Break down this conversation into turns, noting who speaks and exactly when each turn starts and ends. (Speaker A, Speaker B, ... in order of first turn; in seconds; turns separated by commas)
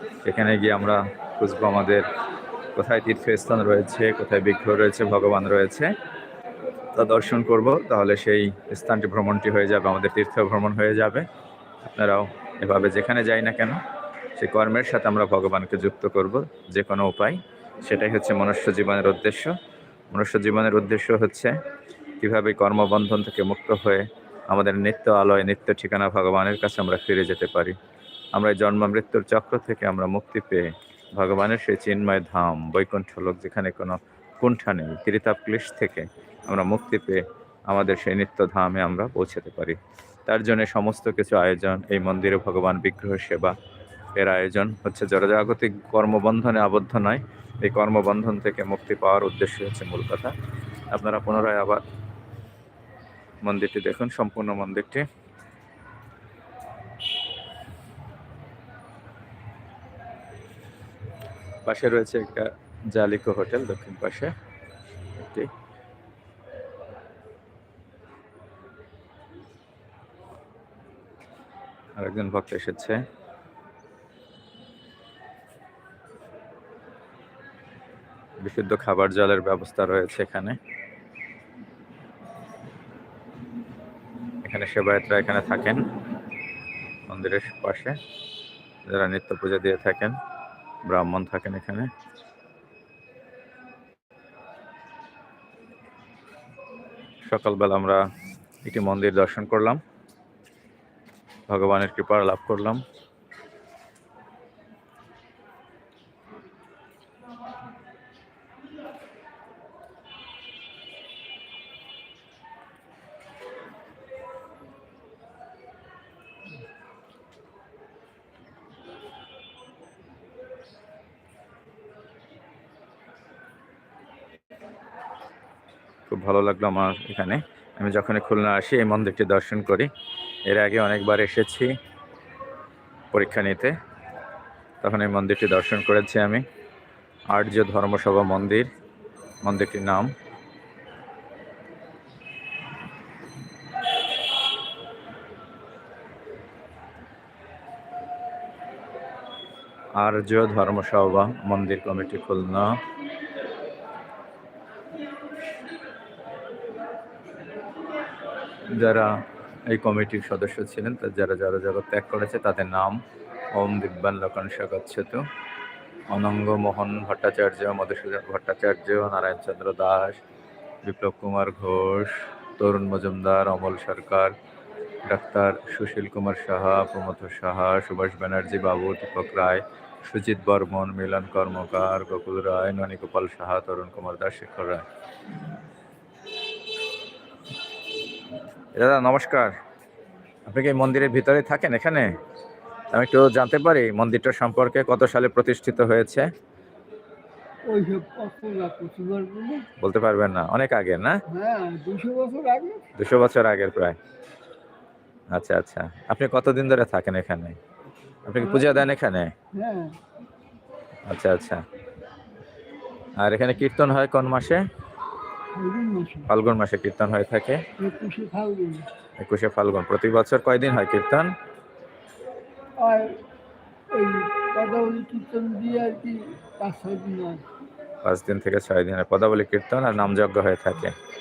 Speaker A: 0.2-2.1, Speaker A: 2.8-5.9, Speaker A: 7.0-11.3, Speaker A: 11.8-13.8, Speaker A: 14.4-19.6, Speaker A: 20.1-21.5, Speaker A: 22.2-27.8, Speaker A: 28.4-43.5, Speaker A: 44.2-50.3, Speaker A: 50.9-51.8, Speaker A: 53.4-55.0, Speaker A: 61.7-64.3, Speaker A: 65.2-65.5, Speaker A: 72.0-73.0, Speaker A: 78.4-80.6, Speaker A: 84.4-85.9, Speaker A: 87.1-88.0, Speaker A: 88.9-90.2, Speaker A: 90.9-91.9, Speaker A: 97.3-98.0, Speaker A: 98.6-99.8, Speaker A: 101.5-102.8, Speaker A: 126.1-129.9, Speaker A: 130.5-131.7, Speaker A: 133.1-133.7, Speaker A: 134.8-136.4, Speaker A: 137.3-138.7, Speaker A: 139.4-140.1, Speaker A: 150.0-152.8, Speaker A: 158.8-163.0, Speaker A: 163.5-165.2, Speaker A: 166.1-170.2, Speaker A: 170.8-174.3, Speaker A: 175.1-184.9, Speaker A: 188.8-189.6, Speaker A: 190.5-192.2, Speaker A: 192.9-196.3, Speaker B: 197.7-199.7, Speaker A: 199.8-201.2, Speaker B: 201.3-202.8, Speaker A: 203.0-204.0, Speaker A: 205.3-207.6, Speaker A: 208.3-209.3, Speaker B: 208.4-208.9, Speaker B: 209.5-210.0, Speaker A: 211.1-211.6, Speaker A: 213.2-214.7, Speaker B: 215.6-216.3, Speaker A: 216.3-217.6, Speaker B: 217.8-218.9, Speaker A: 219.2-221.3, Speaker B: 222.8-223.2, Speaker B: 223.9-227.5, Speaker A: 228.0-230.9